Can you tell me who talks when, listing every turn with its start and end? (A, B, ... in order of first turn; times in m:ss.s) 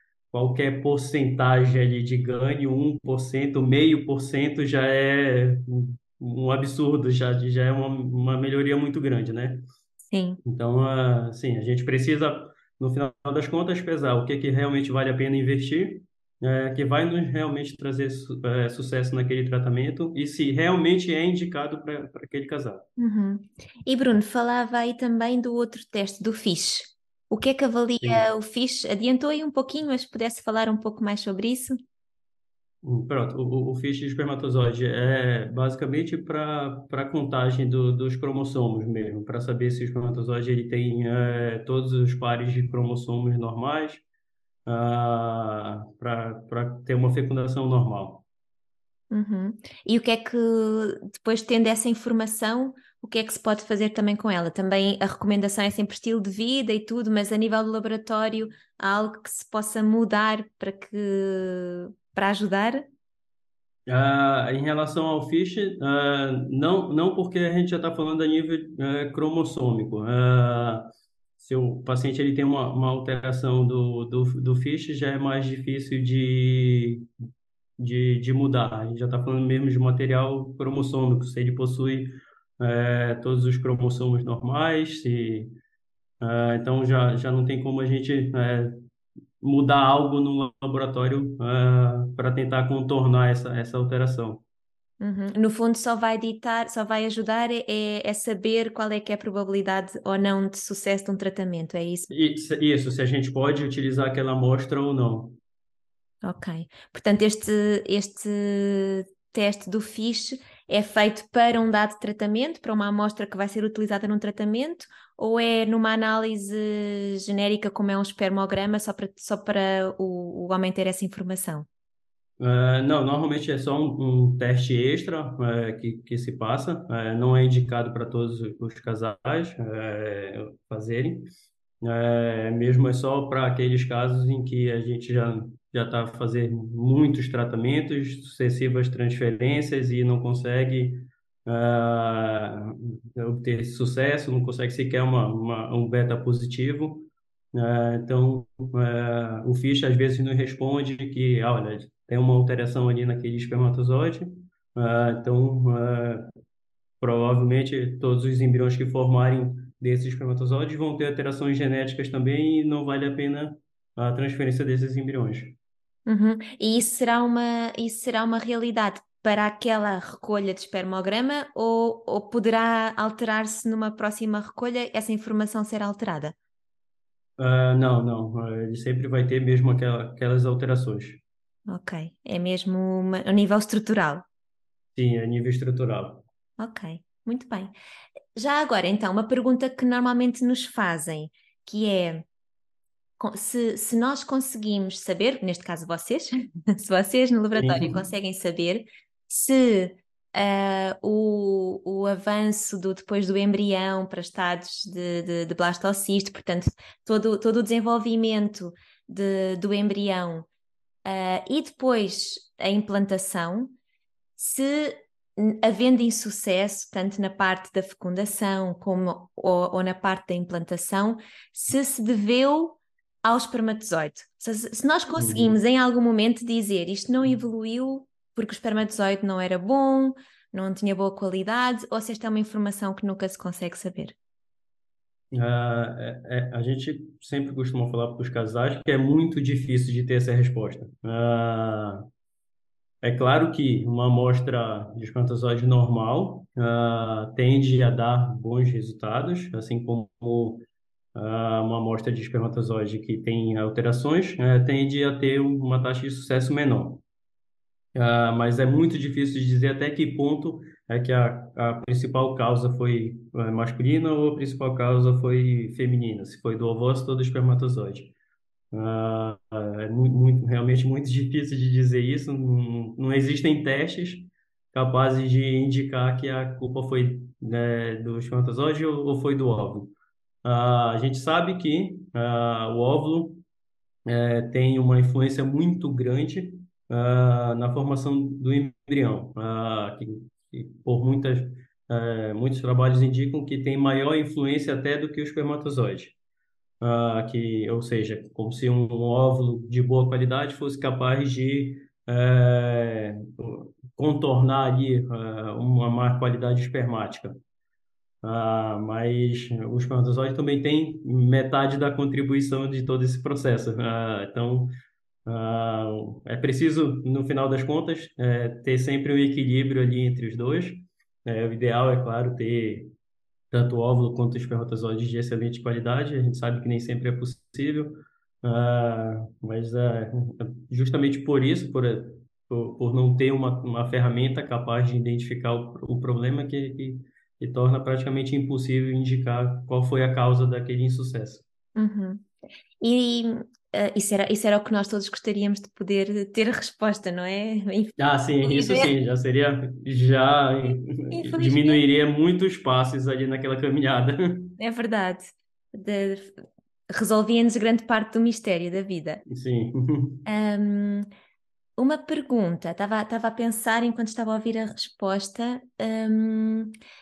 0:00.3-0:09.6 A
0:10.1-0:10.4 B
0:10.4-0:22.8 A
0:23.0-0:31.8 B
0:32.8-0:44.0 A
0:44.7-0:48.2 A
0:49.1-1:02.9 B
1:03.9-1:10.9 A
1:11.4-1:17.1 A
1:17.8-1:25.5 A
1:26.2-1:28.8 A
1:29.4-1:34.4 A
1:35.0-1:42.1 B
1:42.1-1:45.4 A
1:46.2-2:01.7 B
2:02.4-2:11.3 A
2:11.8-2:36.3 A
2:37.0-2:45.6 A
2:46.1-2:56.4 B
2:57.4-3:01.2 A
3:01.7-3:04.2 B
3:05.0-3:06.2 A
3:06.6-3:07.7 B
3:08.4-3:12.2 B
3:13.2-3:30.5 B
3:17.6-3:18.0 A
3:31.0-3:33.7 B
3:34.4-3:54.2 B
3:45.2-3:45.6 A
3:55.3-4:02.0 A
4:03.0-4:17.0 A
4:18.0-4:28.1 A
4:28.7-4:39.9 A
4:40.4-4:43.4 A
4:44.1-4:56.2 A
4:56.8-5:07.4 A
5:08.2-5:14.7 A
5:15.3-5:22.9 A
5:23.5-5:41.4 A
5:41.8-5:42.3 B
5:42.8-5:48.9 B
5:48.0-5:54.6 A
5:50.7-5:51.8 B
5:54.6-5:56.3 B
5:56.9-5:59.2 B
5:59.3-6:00.2 A
6:00.2-6:01.1 B
6:01.8-6:06.8 B